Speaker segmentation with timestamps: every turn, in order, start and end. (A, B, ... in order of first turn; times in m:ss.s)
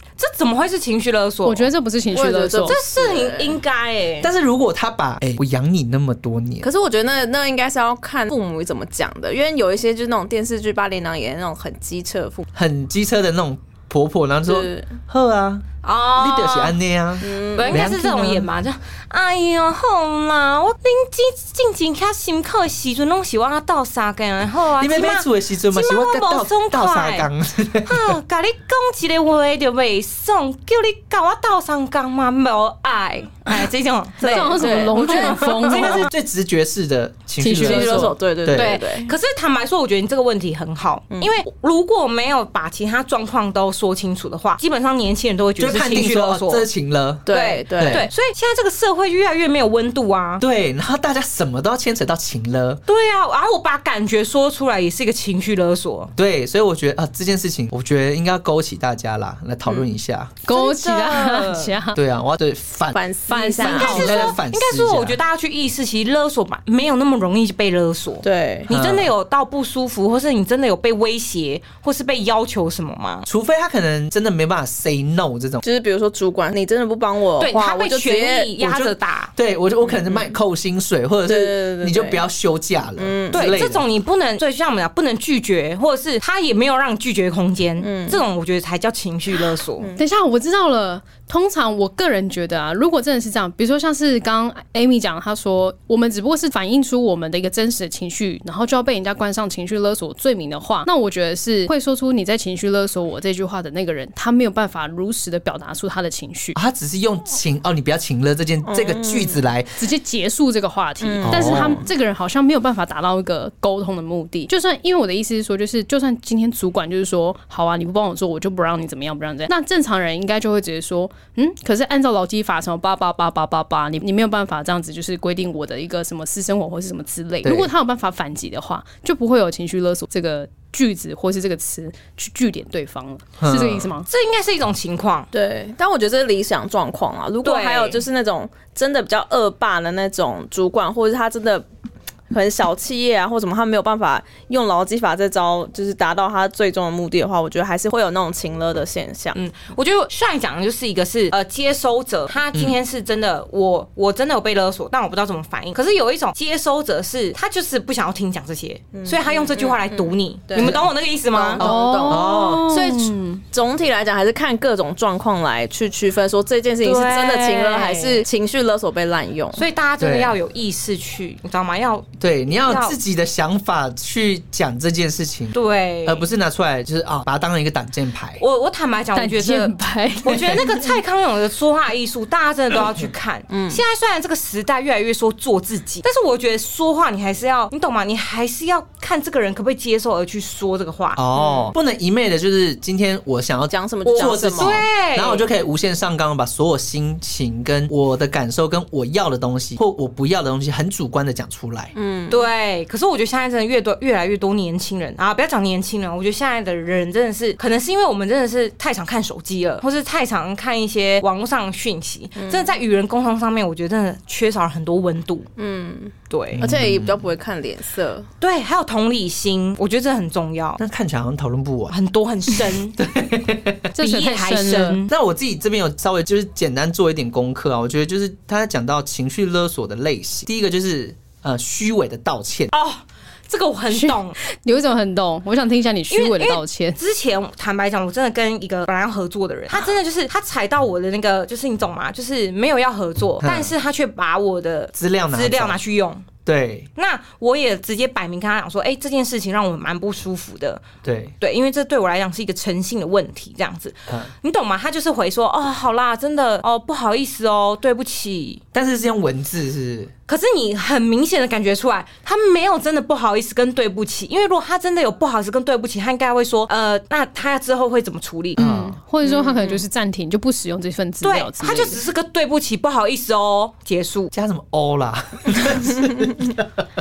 0:00.2-0:01.7 A
0:01.4-0:02.8 B
0:02.1-0:03.6 C
0:02.6-0:04.3 A
0:04.2-0:06.7 D
0:06.6-0:12.5 C
0:12.5-0:18.5 D
0:14.5-0:14.8 C
0:15.8-0:16.8 A
0:17.2-0:17.8 C
0:17.5-0:27.3 A
0:24.8-0:28.2 D
0:27.9-0:36.1 A
0:34.2-0:35.4 C
0:34.2-0:36.1 B
0:35.7-0:38.8 D
0:37.4-0:38.2 B
0:37.6-0:39.1 C
0:38.5-0:46.7 A
0:45.6-0:47.3 D
0:47.3-0:48.0 C
0:47.3-0:50.4 A
0:47.8-0:48.1 D
0:50.4-0:52.8 D
0:52.9-0:56.1 A
0:56.2-1:00.4 D
1:00.5-1:02.0 B
1:00.5-1:01.8 A
1:02.0-1:03.0 D
1:02.9-1:04.1 C
1:03.3-1:04.4 B
1:03.6-1:13.3 A
1:03.6-1:05.2 D
1:08.2-1:08.7 C
1:08.7-1:09.1 D
1:13.3-1:15.6 D
1:15.6-1:18.5 C
1:17.4-1:19.3 A
1:18.6-1:23.8 D
1:19.8-1:20.3 C
1:21.3-1:22.2 C
1:23.0-1:23.6 C
1:23.3-1:29.9 A
1:27.8-1:28.2 C
1:30.0-1:46.6 B
1:46.6-1:49.8 D
1:48.6-1:49.4 C
1:49.8-2:14.1 B
1:51.0-1:51.8 C
1:51.2-1:51.8 D
2:07.4-2:07.7 D
2:13.4-2:13.9 D
2:14.1-2:15.3 A
2:15.3-2:21.7 C
2:17.4-2:18.0 A
2:22.3-2:29.4 C
2:29.4-2:41.6 A
2:38.9-2:49.6 C
2:40.6-2:40.9 D
2:41.6-2:42.8 D
2:41.6-2:43.4 B
2:46.8-2:48.2 A
2:49.5-2:53.0 A
2:50.0-2:50.4 D
2:52.2-2:58.4 D
2:55.5-2:56.3 A
2:58.4-3:11.2 A
2:59.2-3:00.6 B
3:00.3-3:00.6 D
3:03.5-3:03.8 C
3:11.2-3:21.9 D
3:11.4-3:11.7 C
3:13.7-3:14.8 C
3:14.0-3:15.5 A
3:22.0-3:22.5 C
3:22.3-3:35.5 A
3:32.4-3:32.7 C
3:35.6-3:38.3 C
3:36.3-3:36.7 A
3:36.5-3:37.3 D
3:38.4-3:40.8 A
3:40.8-3:42.0 D
3:41.9-3:43.0 A
3:43.0-3:44.0 D
3:44.0-3:45.0 B
3:44.0-3:45.1 A
3:45.1-3:52.7 D
3:52.7-3:54.4 A
3:53.9-3:57.0 B
3:56.1-4:06.3 A
4:03.4-4:03.7 D
4:05.0-4:05.8 D
4:06.5-4:06.9 D
4:07.0-4:18.6 A
4:11.0-4:11.3 D
4:18.7-4:20.1 D
4:20.3-4:28.6 A
4:28.6-4:29.0 D
4:28.6-4:32.0 B
4:29.2-4:29.8 A
4:31.2-4:34.3 A
4:34.3-4:36.7 D